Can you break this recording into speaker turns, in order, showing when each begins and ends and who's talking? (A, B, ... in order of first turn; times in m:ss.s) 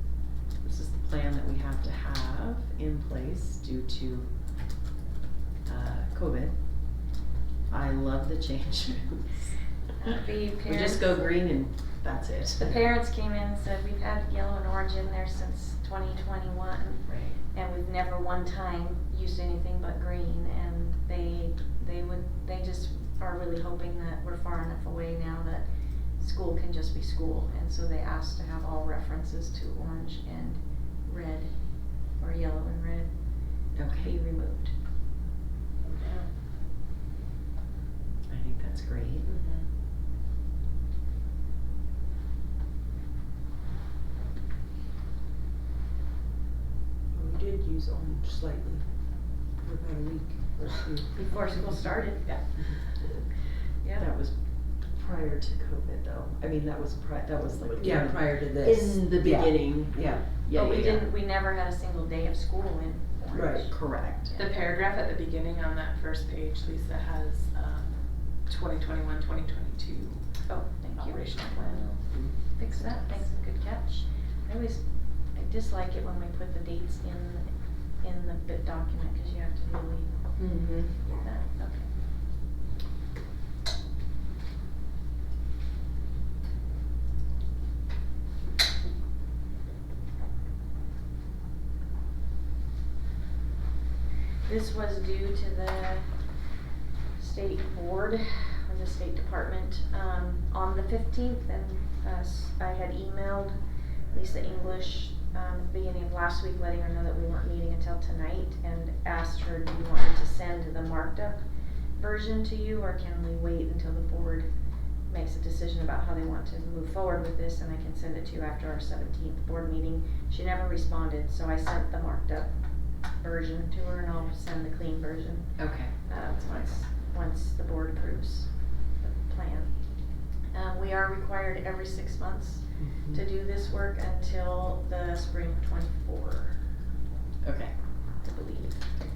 0:00.6-0:04.3 A
0:05.6-0:06.6 A
0:07.7-0:09.5 A
0:10.0-0:11.3 B
0:10.6-0:12.9 A
0:12.6-0:25.7 B
0:17.1-0:17.4 A
0:26.2-0:31.6 B
0:32.2-0:33.1 B
0:33.7-0:34.7 B
0:33.8-0:34.2 A
0:35.8-0:36.3 C
0:38.3-0:39.3 A
0:39.3-0:39.7 C
0:47.1-0:48.9 D
0:49.6-0:51.3 D
0:51.2-0:52.4 B
0:54.0-1:01.1 A
0:57.8-1:00.3 D
1:00.5-1:04.7 B
1:03.3-1:03.7 D
1:03.7-1:04.3 A
1:04.4-1:10.4 C
1:10.4-1:12.0 B
1:11.0-1:12.0 C
1:12.5-1:20.1 B
1:20.4-1:21.0 C
1:21.1-1:21.9 B
1:34.4-1:36.1 B
1:37.2-1:43.6 B
1:44.1-1:51.4 B
1:52.0-1:54.5 B
1:55.1-2:02.5 B
2:03.2-2:09.7 B
2:05.6-2:05.9 A
2:10.5-2:16.6 B
2:12.8-2:13.2 A
2:17.4-2:17.7 A
2:18.2-2:18.9 B